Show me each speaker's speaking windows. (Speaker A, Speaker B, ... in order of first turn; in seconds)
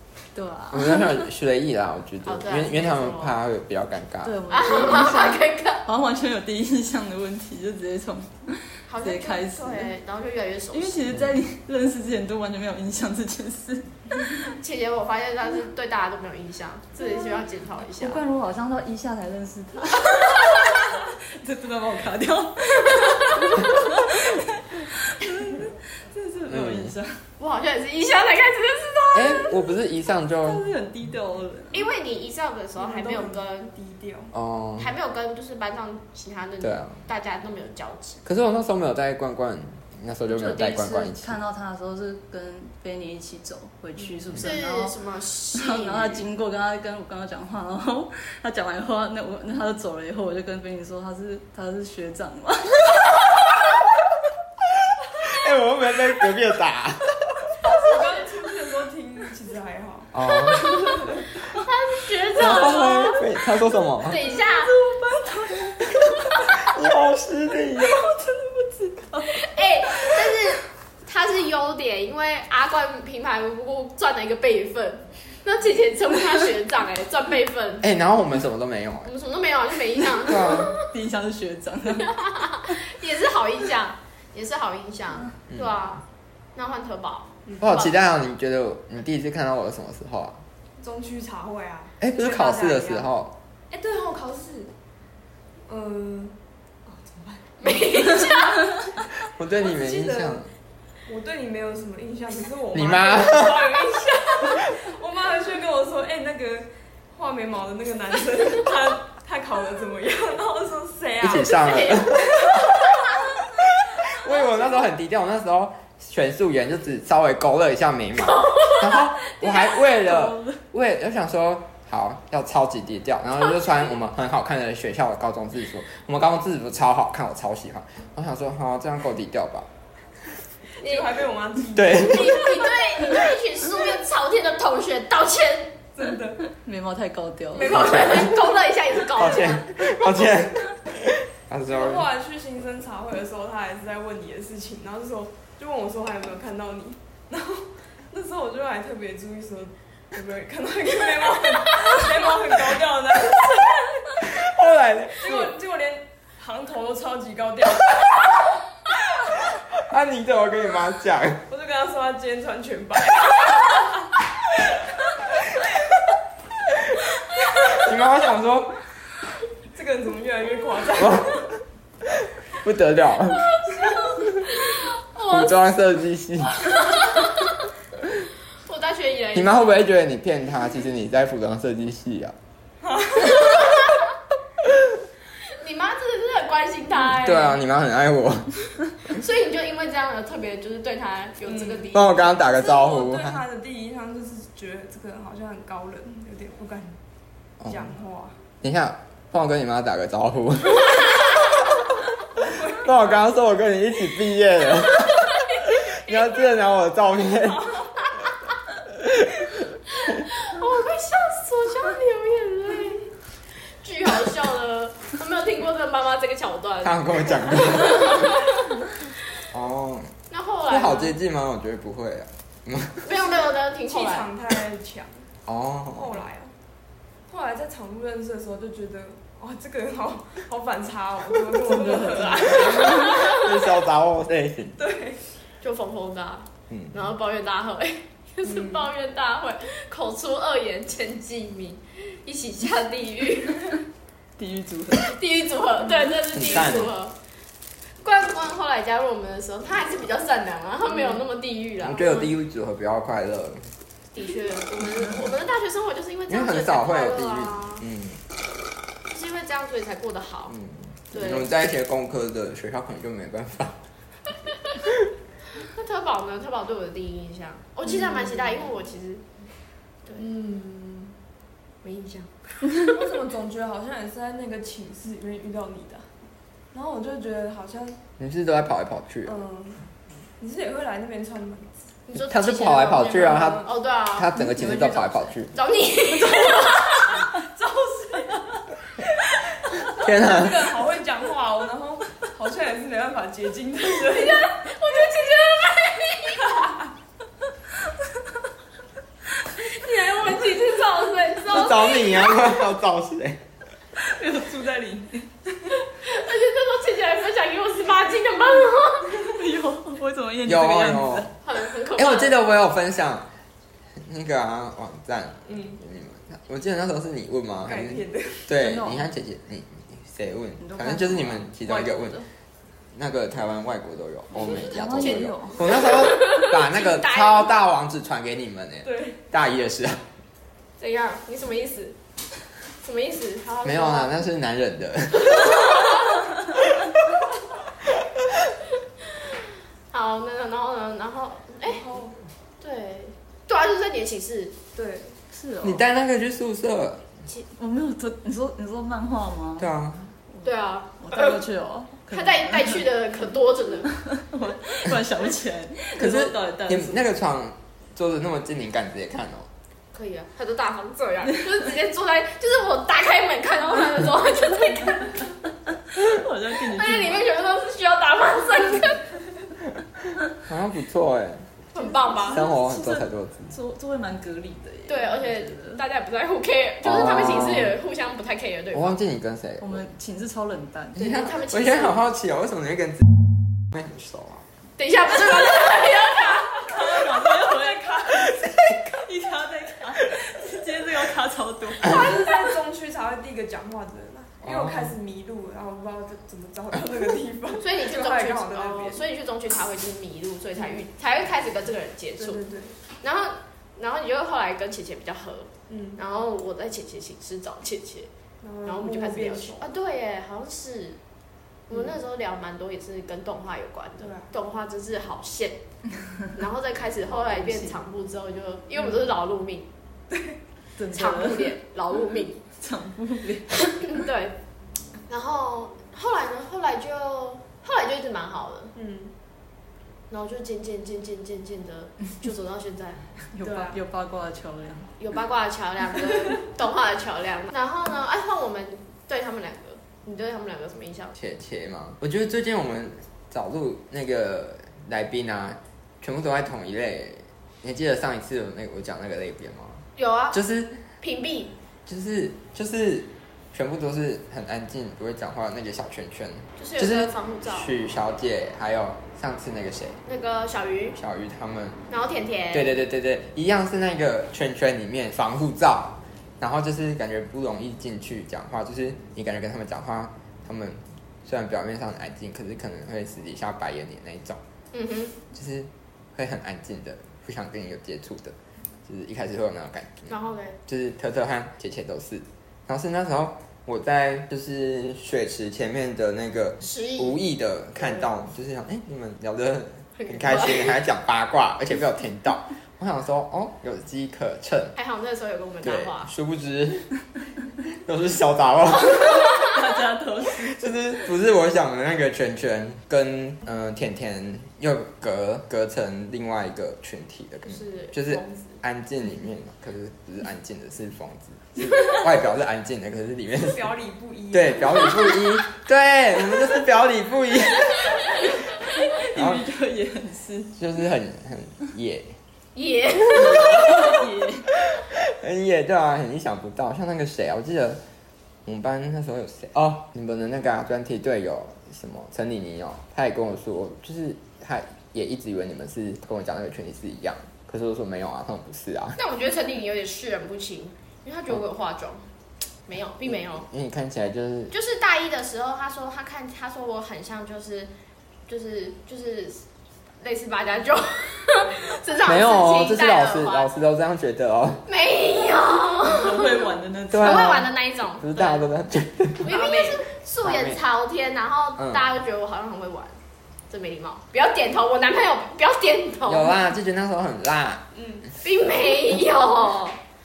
Speaker A: 0.3-1.2, 4.2-9.9, 10.7-14.5, 17.0-27.2, 30.4-31.9, 40.3-45.0, 45.5-52.9, 65.0-65.7, 67.8-70.3, 80.7-82.1, 119.4-120.6, 136.6-138.3, 231.6-233.2, 244.4-245.1, 284.3-285.1, 304.0-305.2, 309.2-311.3, 318.6-319.1, 320.6-322.2, 324.3-325.7, 345.3-345.8, 347.5-349.7, 351.0-352.8, 353.9-357.0, 365.9-367.3, 372.1-375.8, 379.6-381.0, 386.6-392.2, 420.8-421.6, 422.6-423.8, 433.3-434.9, 499.4-500.7, 518.6-520.5, 523.1-524.5, 555.9-557.4
Speaker B: 0.7-4.4, 26.5-26.9, 29.1-30.6, 34.3-34.9, 36.6-37.0, 38.2-41.4, 55.1-57.3, 60.1-60.6, 62.4-64.2, 66.4-68.0, 77.8-79.1, 80.2-80.7, 87.6-90.4, 92.0-93.3, 99.2-100.5, 102.7-103.7, 111.2-112.7, 113.7-129.7, 131.7-132.3, 137.7-138.2, 139.1-142.1, 154.2-155.5, 159.5-161.4, 167.7-168.8, 171.0-171.5, 172.2-173.5, 175.3-176.7, 179.3-182.3, 187.2-188.6, 191.9-193.4, 198.6-201.4, 202.6-207.9, 209.0-209.3, 216.8-218.4, 219.5-220.1, 220.7-223.1, 225.5-226.1, 232.8-234.8, 246.3-246.9, 251.8-253.6, 256.3-258.2, 260.5-263.8, 278.2-279.3, 282.1-285.5, 289.9-290.7, 301.5-303.4, 310.4-311.3, 311.9-313.3, 314.0-322.2, 322.9-330.0, 333.6-335.8, 345.6-347.1, 349.6-350.1, 356.0-359.5, 370.4-371.5, 372.2-373.5, 376.8-377.8, 378.7-379.8, 381.0-383.1, 383.7-384.4, 388.4-389.0, 394.4-394.9, 441.1-450.8, 451.9-460.0, 461.0-461.8, 462.5-474.4, 475.3-478.3, 478.9-480.1, 480.6-494.7, 495.6-496.9, 497.8-499.3, 500.4-513.6, 514.3-518.3, 519.1-519.4, 520.5-522.1, 524.6-527.8, 528.5-539.0, 543.3-544.5, 552.0-554.6, 556.9-559.3, 560.2-560.6, 561.6-561.8, 566.0-567.6
Speaker C: 2.2-3.3, 4.5-5.8, 8.9-11.1, 14.5-18.2, 20.2-20.7, 27.4-29.7, 31.7-33.7, 34.8-38.2, 44.3-46.2, 60.5-63.3, 64.0-64.7, 69.3-77.9, 79.0-80.7, 81.9-86.0, 86.5-88.0, 97.6-98.8, 130.8-131.2, 131.9-135.8, 137.5-139.8, 174.4-175.5, 176.6-177.7, 178.6-179.7, 183.2-184.0, 185.5-187.6, 189.1-192.6, 209.9-213.1, 213.7-218.7, 220.3-221.2, 223.0-224.3, 232.2-233.4, 235.6-243.8, 244.9-247.2, 248.0-252.3, 254.1-257.8, 259.1-260.5, 261.1-261.5, 265.6-269.2, 271.8-272.3, 282.1-284.4, 285.5-287.2, 294.0-296.7, 299.6-302.5, 305.8-309.3, 311.4-312.4, 324.4-327.5, 330.8-332.0, 332.8-334.1, 339.9-341.8, 342.6-344.6, 350.4-351.4, 352.1-353.9, 359.9-365.3, 366.5-369.1, 371.7-372.5, 374.9-379.0, 380.9-382.0, 384.8-386.7, 397.6-402.4, 403.0-408.1, 408.6-411.0, 411.7-415.6, 416.3-419.7, 420.9-422.4, 423.7-424.4, 425.1-428.7, 430.1-433.0, 435.0-441.1, 449.9-450.4, 451.0-451.5, 456.6-457.7, 460.1-461.0, 461.9-462.8, 474.7-475.2, 480.1-480.6, 486.6-487.2, 487.8-488.1, 490.0-490.8, 494.8-496.1, 507.5-508.6, 522.5-524.0, 539.0-542.0, 542.7-543.5, 544.5-547.7, 548.3-549.4, 550.0-553.5, 554.7-558.5, 559.2-563.0, 563.5-566.3, 568.2-569.8
Speaker D: 32.8-34.3, 44.0-44.2, 57.6-61.2, 62.5-62.9, 64.1-65.9, 90.8-93.1, 93.7-94.7, 95.7-98.2, 99.5-100.4, 101.0-113.2, 130.8-132.5, 135.9-136.5, 141.7-154.3, 155.2-158.2, 161.5-163.9, 169.7-171.4, 182.8-183.5, 191.4-191.9, 192.5-197.0, 197.6-198.4, 202.3-203.2, 223.1-225.3, 225.9-226.5, 227.3-233.4, 234.8-235.2, 238.4-238.9, 245.8-246.1, 270.1-271.1, 272.7-276.1, 276.7-278.0, 279.2-279.8, 280.4-281.7, 283.1-283.7, 286.2-294.7, 296.4-296.9, 299.6-302.0, 304.1-305.8, 315.4-315.8, 317.6-318.5, 328.8-329.2, 341.6-342.2, 344.7-345.2, 386.7-388.4, 391.8-399.0, 400.6-400.8, 402.2-402.8, 405.7-406.0, 408.4-409.7, 414.0-414.3, 420.1-420.4, 428.7-429.1, 433.4-433.8, 513.4-515.2, 559.3-559.8, 567.7-568.1